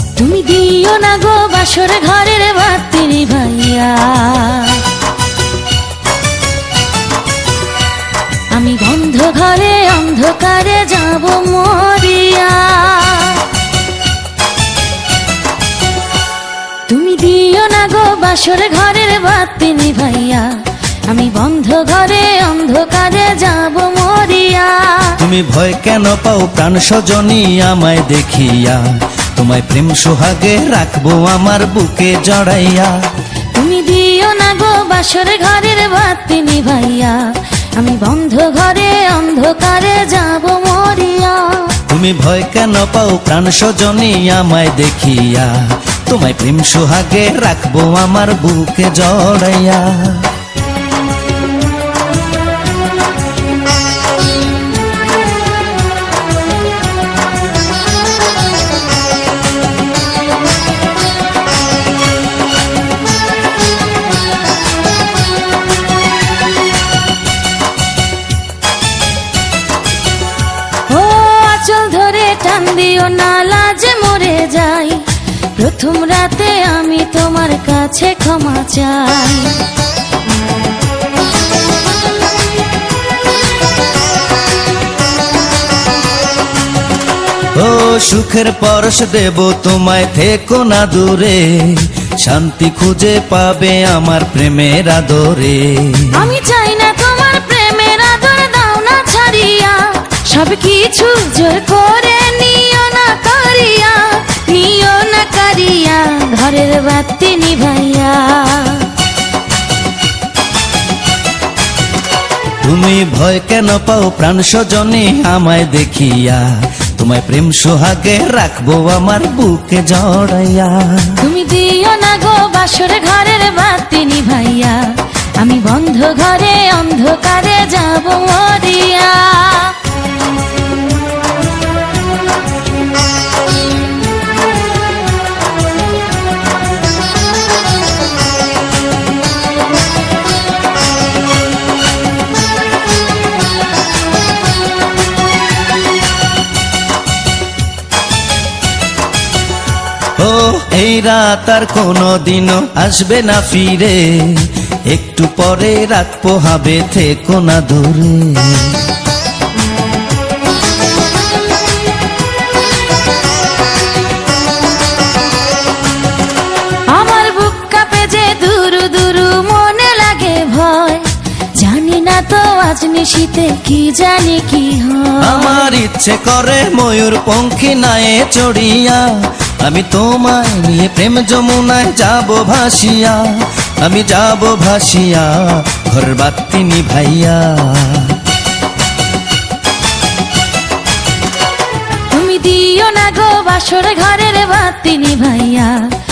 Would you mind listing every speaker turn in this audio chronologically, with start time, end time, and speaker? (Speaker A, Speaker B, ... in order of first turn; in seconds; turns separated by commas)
Speaker A: 0.2-4.8, Speaker A: 8.5-13.5, Speaker A: 16.9-20.5, Speaker A: 21.1-25.2, Speaker B: 25.2-33.0, Speaker A: 33.5-37.2, Speaker A: 37.8-41.7, Speaker B: 41.9-50.3, Speaker A: 70.9-75.0, Speaker A: 75.5-79.5, Speaker B: 87.5-96.2, Speaker A: 96.1-108.9, Speaker B: 112.6-121.2, Speaker A: 121.2-124.8, Speaker A: 125.4-129.8, Speaker B: 150.2-158.9, Speaker A: 166.9-175.8, Speaker B: 175.2-188.2, Speaker A: 192.1-195.8